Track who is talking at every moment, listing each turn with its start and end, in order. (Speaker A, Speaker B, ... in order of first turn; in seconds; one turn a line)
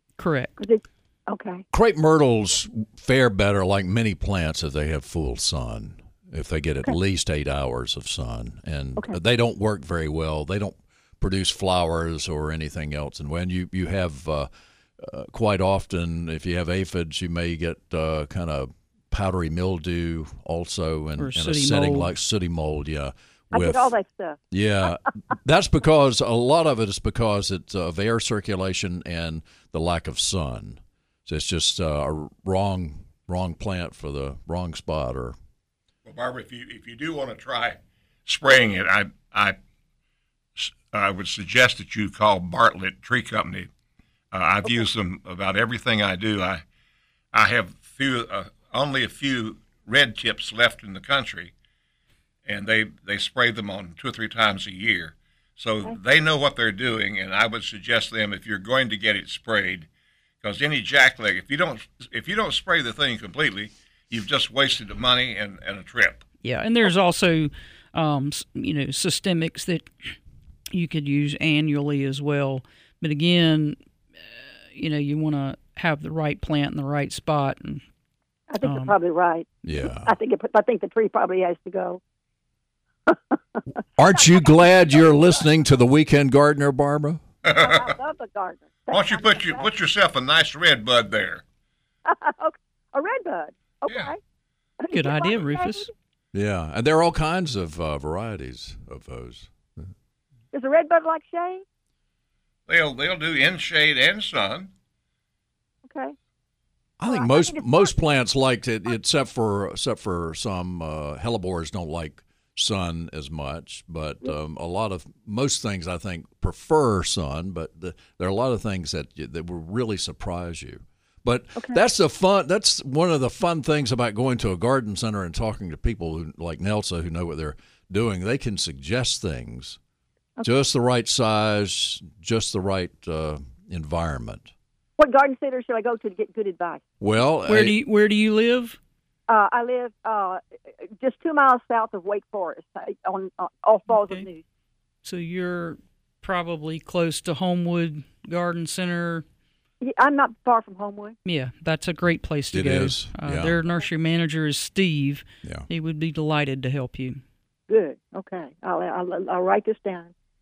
Speaker A: 0.2-0.5
Speaker B: 0.6-1.6
Speaker C: 1.7-23.9
Speaker A: 21.2-22.1
Speaker B: 23.5-24.4
Speaker C: 24.5-35.4
Speaker D: 36.1-39.6
Speaker D: 40.6-43.7
Speaker D: 44.3-46.6
Speaker D: 47.3-51.5
Speaker D: 52.5-59.9
Speaker D: 60.4-66.2
Speaker A: 66.4-69.9
Speaker A: 70.7-73.8
Speaker A: 74.7-77.8
Speaker B: 78.5-82.0
Speaker A: 78.6-78.9
Speaker C: 79.7-80.2
Speaker B: 83.1-85.4
Speaker C: 84.0-87.2
Speaker D: 87.4-88.0
Speaker B: 87.6-89.7
Speaker D: 88.9-91.4
Speaker B: 92.1-94.2
Speaker B: 94.8-95.9
Speaker A: 94.9-95.9
Speaker C: 96.3-99.9
Speaker B: 100.5-101.6
Speaker D: 102.7-104.7
Speaker B: 105.9-106.2
Speaker C: 107.0-129.8
Speaker B: 107.1-107.9
Speaker C: 130.4-134.5
Speaker B: 135.0-136.8
Speaker C: 137.0-137.8
Speaker A: 137.5-138.8
Speaker B: 139.3-140.4
Speaker B: 141.0-144.4
Speaker A: 143.9-144.3
Speaker A: 145.0-149.2
Speaker B: 149.8-151.2
Speaker A: 151.2-157.2
Speaker C: 152.5-153.6
Speaker B: 157.7-160.1